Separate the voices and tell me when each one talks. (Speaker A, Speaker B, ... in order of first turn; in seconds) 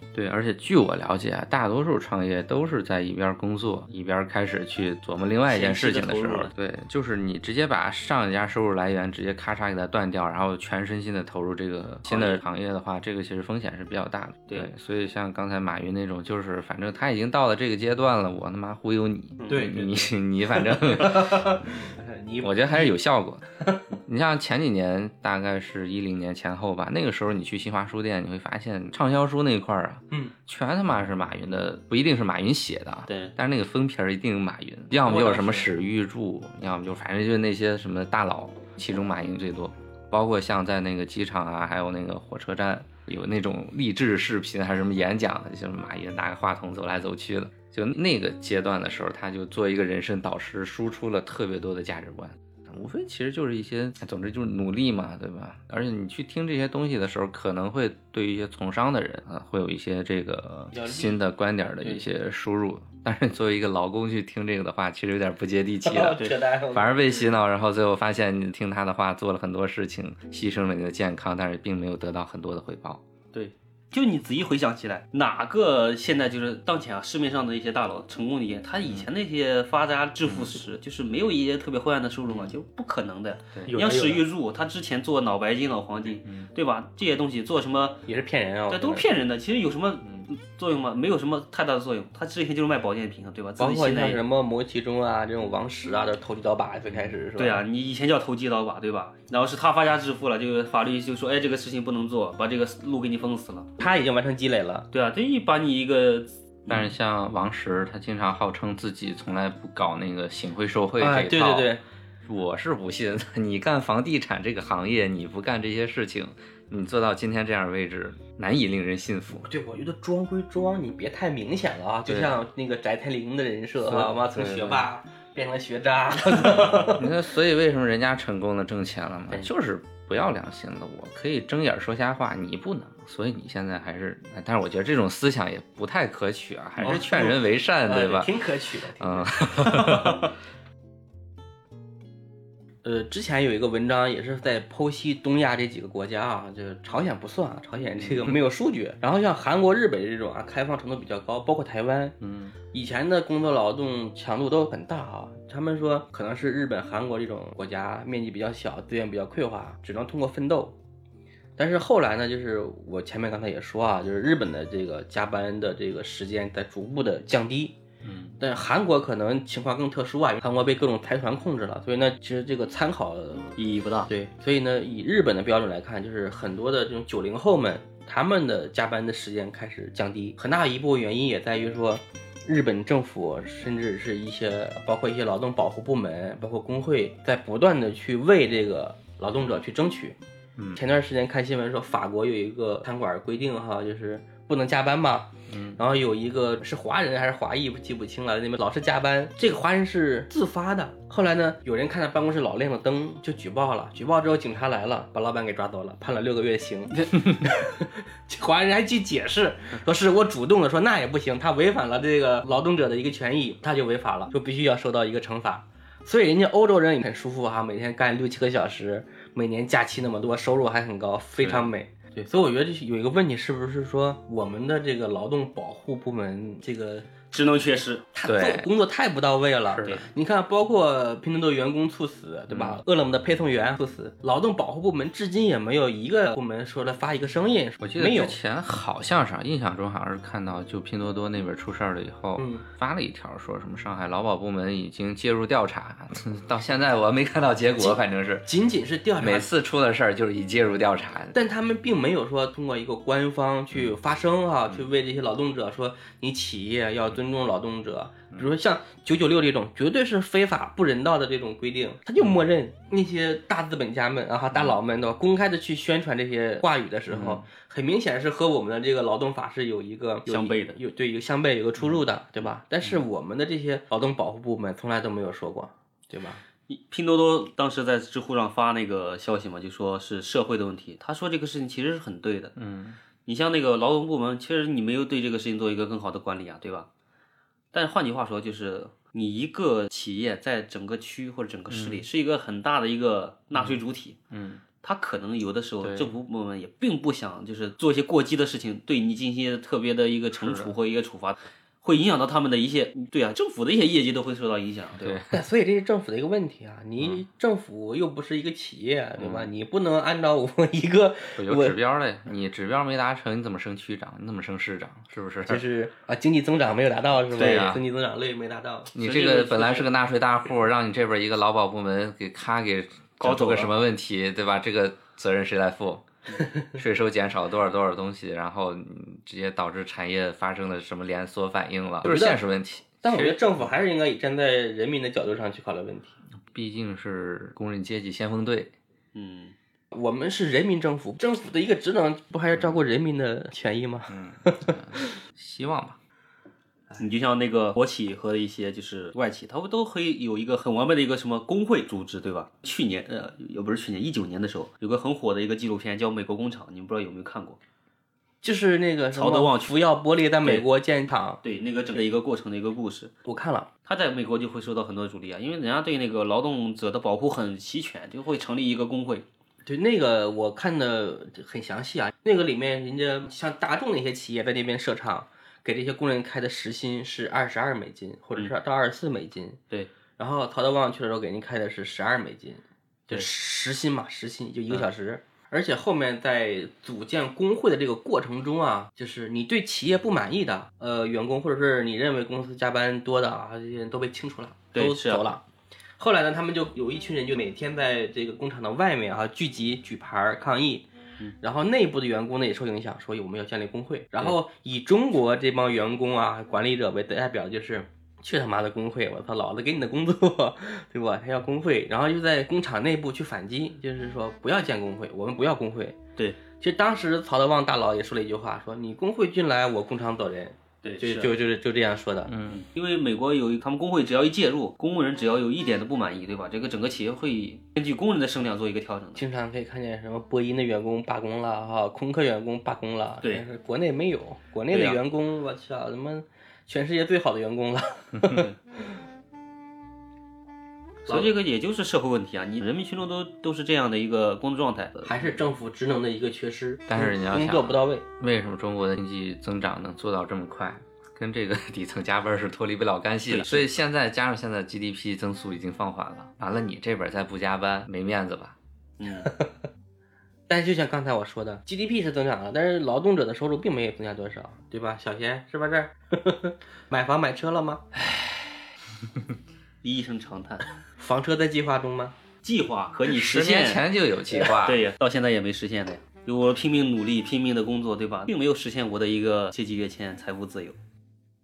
Speaker A: 0.1-21.6, 22.4-23.4, 24.1-73.0, 80.3-80.5, 86.2-86.5, 106.7-111.7, 112.3-119.5, 122.1-122.4, 123.8-124.9, 126.7-138.3, 139.0-140.3, 148.1-148.3, 152.2-152.6, 168.0-168.4, 195.5-195.8, 221.4-221.7, 228.2-228.7, 229.7-230.1, 232.5-232.8, 237.8-248.5, 249.2-251.4, 267.1-267.4, 282.6-283.0, 291.7-292.1, 293.6-293.8, 294.3-294.6, 295.8-296.1, 300.4-300.7, 305.0-305.4, 309.2-309.4, 311.4-315.6, 317.3-317.8, 318.9-326.1, 326.6-333.4, 336.5-338.7, 344.1-346.0, 422.3-422.6, 446.9-458.6, 473.1-474.8
Speaker B: 5.5-6.5, 19.4-19.8, 33.1-33.4, 73.3-88.1, 88.7-94.2, 97.4-103.7, 104.9-106.9, 173.6-174.1, 227.3-228.1, 270.3-270.8, 276.7-282.6, 283.3-286.9, 287.7-294.2, 294.8-305.2, 317.3-317.8, 319.0-319.9, 323.2-323.7, 339.1-339.6, 347.0-357.6, 359.1-359.8, 361.4-363.1, 363.9-369.3, 394.7-395.3, 420.8-421.3, 422.5-429.2, 434.7-435.0, 441.1-445.3, 453.3-453.7, 459.0-459.3, 468.1-468.4, 469.8-470.8, 472.4-473.9, 474.6-480.8
Speaker C: 19.5-19.9, 20.5-22.9, 23.6-23.8, 35.0-35.7, 60.7-61.2, 65.8-67.2, 83.7-84.3, 88.1-89.2, 93.6-97.6, 103.8-104.9, 111.0-111.8, 119.4-127.1, 136.8-140.3, 142.8-152.2, 152.7-160.8, 161.6-167.8, 168.4-190.2, 190.8-227.1, 228.1-238.4, 242.4-242.7, 247.8-249.5, 251.3-276.4, 305.3-311.8, 315.5-318.9, 332.0-332.4, 333.0-336.2, 339.9-345.1, 358.4-361.4, 363.3-363.7, 369.6-379.6, 380.2-395.4, 396.0-400.9, 401.4-416.0, 416.6-422.3, 429.2-439.0, 441.1-441.3, 445.1-448.1, 459.2-459.5, 460.5-467.8, 471.0-472.2